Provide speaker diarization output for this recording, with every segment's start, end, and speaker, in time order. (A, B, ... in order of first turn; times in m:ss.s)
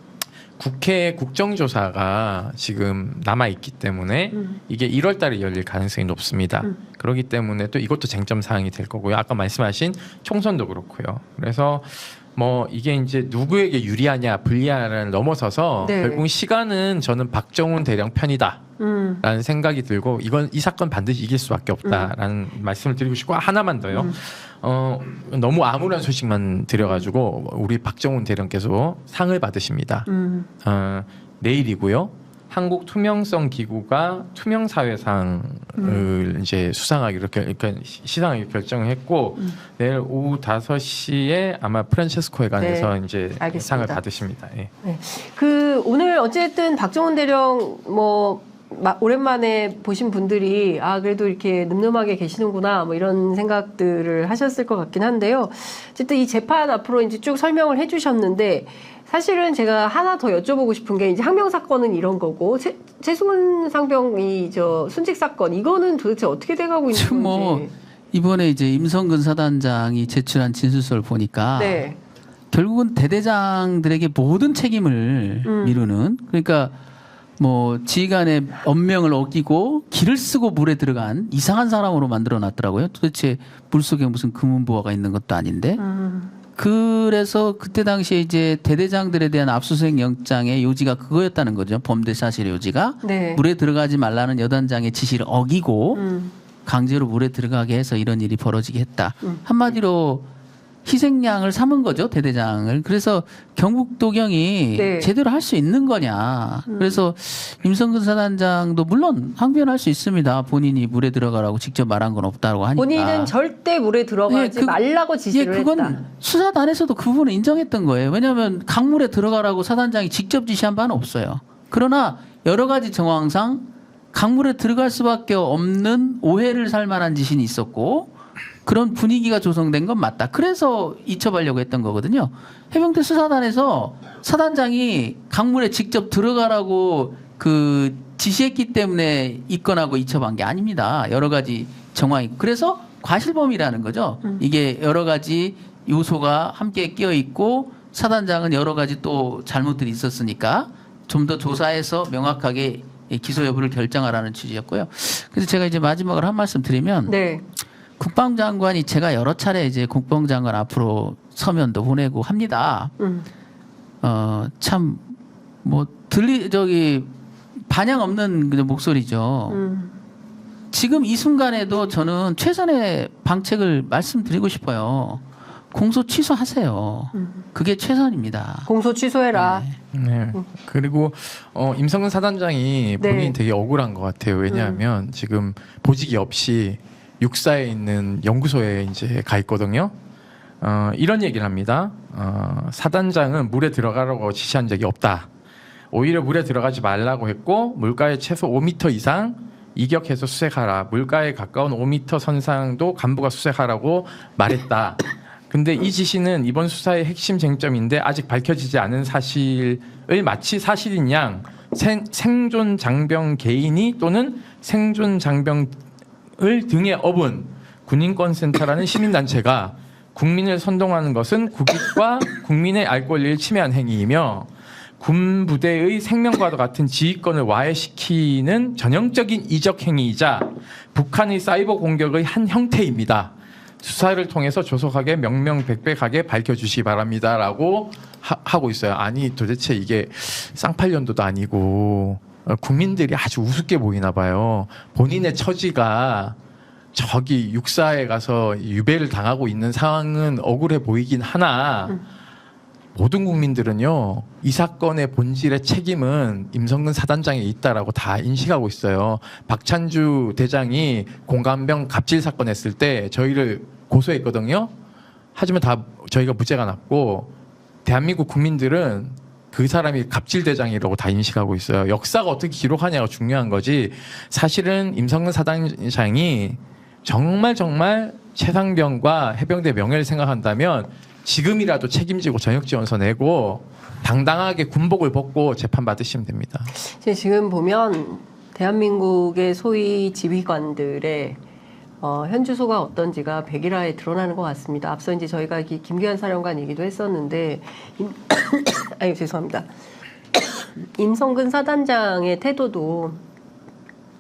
0:00.6-0:18.6 A
0:04.3-0:04.6 B
0:15.8-0:16.3 B
0:18.8-0:19.2 B
0:19.2-0:30.1 A
0:21.8-0:22.1 B
0:23.9-0:24.2 B
0:26.8-0:27.1 B
0:30.1-0:30.5 B
0:30.6-0:44.7 A
0:35.8-0:36.1 B
0:42.6-0:44.0 B
0:44.8-1:07.7 B
1:06.9-1:11.9 C
1:11.6-1:12.0 B
1:12.5-1:16.8 C
1:15.4-1:15.8 B
1:17.4-1:25.8 C
1:25.8-1:26.3 B
1:26.6-1:36.0 C
1:33.0-1:33.4 B
1:36.0-1:36.3 B
1:36.7-1:40.3 C
1:40.8-1:53.3 C
1:44.8-1:45.1 B
1:46.7-1:47.0 B
1:52.8-1:56.0 B
1:54.3-1:54.8 C
1:55.3-2:08.1 C
2:08.7-2:37.2 C
2:37.1-2:37.4 B
2:38.0-2:42.9 C
2:43.0-2:43.3 B
2:44.0-2:47.1 C
2:47.7-2:49.6 C
2:49.5-2:49.9 B
2:50.7-2:58.7 C
2:57.1-2:57.4 B
2:58.7-2:59.6 B
2:59.3-2:59.8 C
2:59.9-3:09.9 A
3:03.0-3:03.4 B
3:04.5-3:04.8 B
3:10.6-3:15.3 A
3:15.9-3:35.8 A
3:36.4-3:44.5 A
3:45.0-4:06.4 A
4:07.0-4:12.0 A
4:13.0-4:24.7 A
4:25.4-4:27.3 A
4:27.8-4:46.7 A
4:46.8-4:51.4 B
4:52.0-4:59.7 B
5:00.4-5:03.2 B